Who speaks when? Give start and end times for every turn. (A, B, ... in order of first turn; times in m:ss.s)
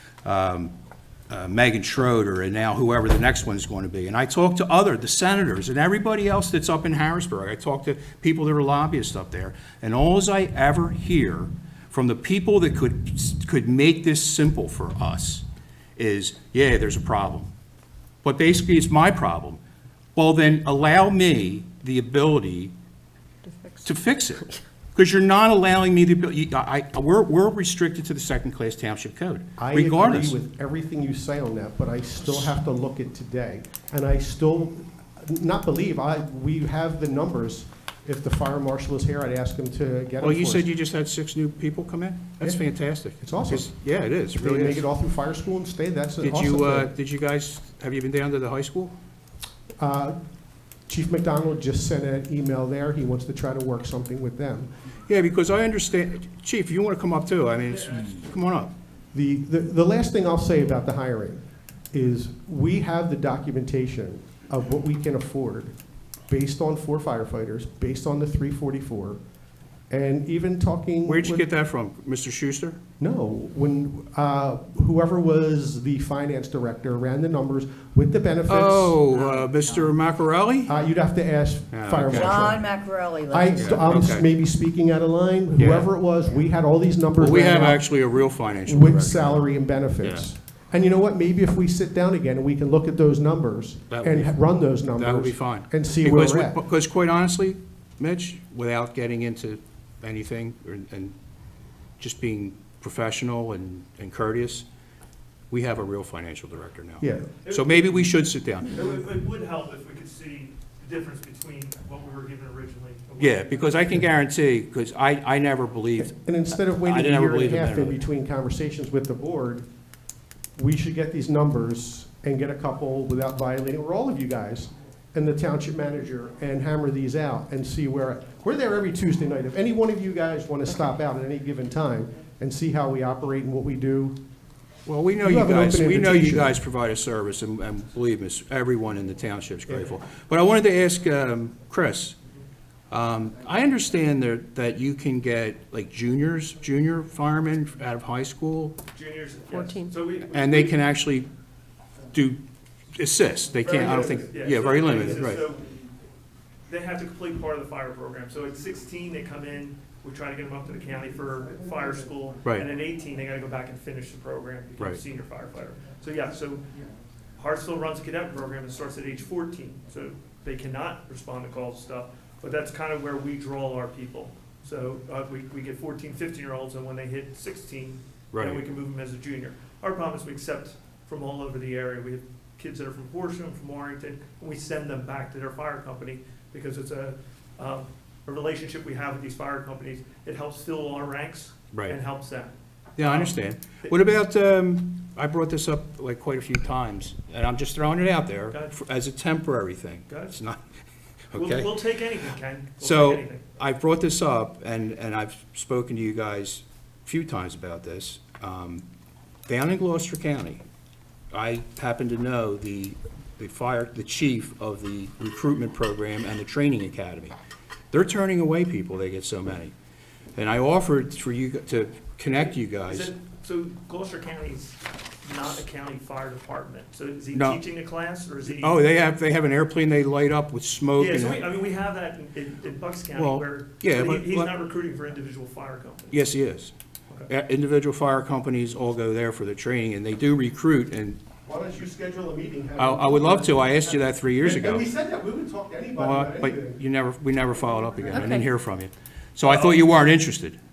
0:00.2-0:00.7 A
0:01.3-0:15.4 A
0:16.0-0:17.5 A
0:18.2-0:19.6 A
0:20.2-0:22.7 A
0:23.4-0:23.8 B
0:23.8-0:30.4 A
0:29.6-0:40.7 C
0:40.2-0:44.8 A
0:43.2-0:43.7 C
0:44.3-0:46.9 C
0:46.2-0:48.9 A
0:49.8-0:50.2 C
0:50.9-0:54.7 C
0:55.1-0:58.7 A
0:59.1-1:05.7 C
1:06.3-1:09.2 C
1:09.9-1:11.4 C
1:11.0-1:12.8 A
1:13.0-1:19.0 C
1:18.5-1:20.7 A
1:20.6-1:22.6 C
1:21.7-1:22.5 A
1:22.1-1:23.8 B
1:23.3-1:28.0 C
1:23.5-1:24.3 A
1:25.5-1:25.9 A
1:27.2-1:30.3 A
1:28.6-1:36.6 C
1:33.9-1:34.4 A
1:34.9-1:41.1 A
1:42.0-1:44.6 A
1:45.5-1:48.7 A
1:47.0-1:47.3 C
1:47.4-1:48.1 D
1:48.6-1:53.9 D
1:53.2-1:58.0 A
1:56.0-1:59.6 C
2:00.6-2:14.2 C
2:14.8-2:22.2 A
2:15.2-2:16.5 C
2:22.9-2:28.8 A
2:28.9-2:30.8 D
2:30.3-2:31.3 A
2:32.1-2:32.4 A
2:32.9-2:35.4 A
2:33.6-2:35.7 D
2:36.6-2:46.7 D
2:42.4-2:42.7 A
2:47.4-3:14.0 D
2:58.3-2:58.6 A
3:11.7-3:12.0 A
3:13.0-3:20.6 A
3:18.5-3:18.8 D
3:20.1-3:20.4 D
3:21.3-3:21.8 A
3:21.3-3:23.4 D
3:22.8-3:28.8 A
3:29.4-3:30.6 A
3:31.3-3:37.3 A
3:37.9-3:39.7 A
3:40.3-3:43.1 A
3:42.8-3:48.8 D
3:47.3-3:47.6 A
3:48.5-3:51.4 A
3:51.0-3:56.2 D
3:53.1-3:54.5 A
3:56.1-3:56.7 A
3:57.3-4:01.2 A
4:01.4-4:06.8 C
4:02.8-4:04.9 A
4:06.0-4:10.6 A
4:09.4-4:10.0 D